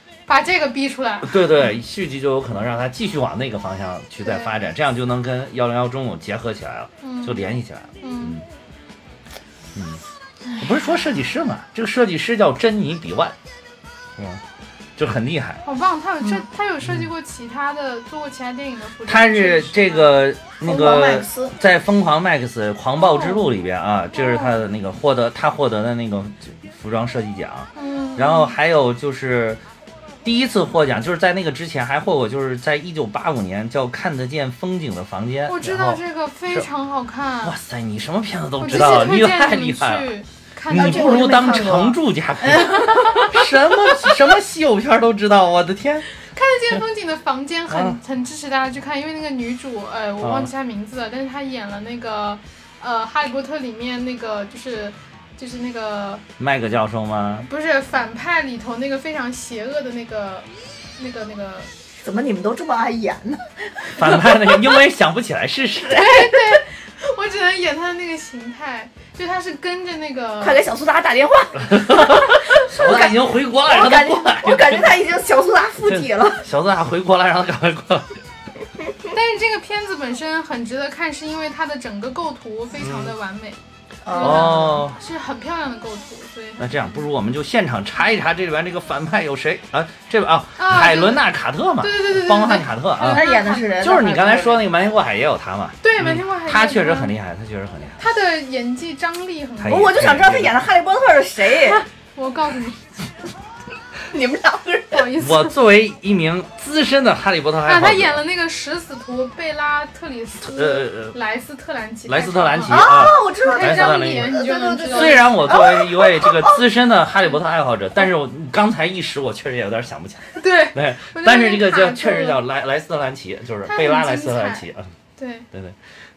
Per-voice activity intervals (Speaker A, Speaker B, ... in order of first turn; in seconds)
Speaker A: 0.3-1.5, 4.2-4.6, 7.0-7.5, 8.0-8.4, 15.7-20.2, 23.0-23.4, 24.1-24.6, 27.8-28.5, 35.5-37.6, 38.6-41.5, 42.8-43.3, 46.3-56.2, 57.5-61.7, 65.9-70.6, 79.1-83.6, 84.1-86.7, 90.6-91.3, 91.8-93.7, 95.8-97.1, 98.0-99.9, 101.6-102.8, 104.9-105.6, 107.6-115.4, 120.4-122.4, 123.7-124.7, 125.2-125.5
Speaker B: 1.2-8.4, 9.8-10.0, 10.6-13.3, 14.2-14.4, 15.0-15.6, 19.1-29.6, 30.2-36.7, 37.4-40.1, 40.7-46.1, 47.7-48.0, 50.2-50.5, 56.4-57.5, 64.0-66.2, 71.7-75.0, 75.9-78.2, 82.8-83.1, 84.2-85.0, 86.6-98.0, 99.6-100.5, 105.2-108.2, 110.4-111.2, 112.1-114.4, 114.9-124.9
Speaker C: 20.6-21.5, 40.7-43.4, 62.0-64.6, 70.4-76.5, 84.0-84.8, 93.0-94.6, 99.7-101.8, 104.1-105.1, 112.7-116.6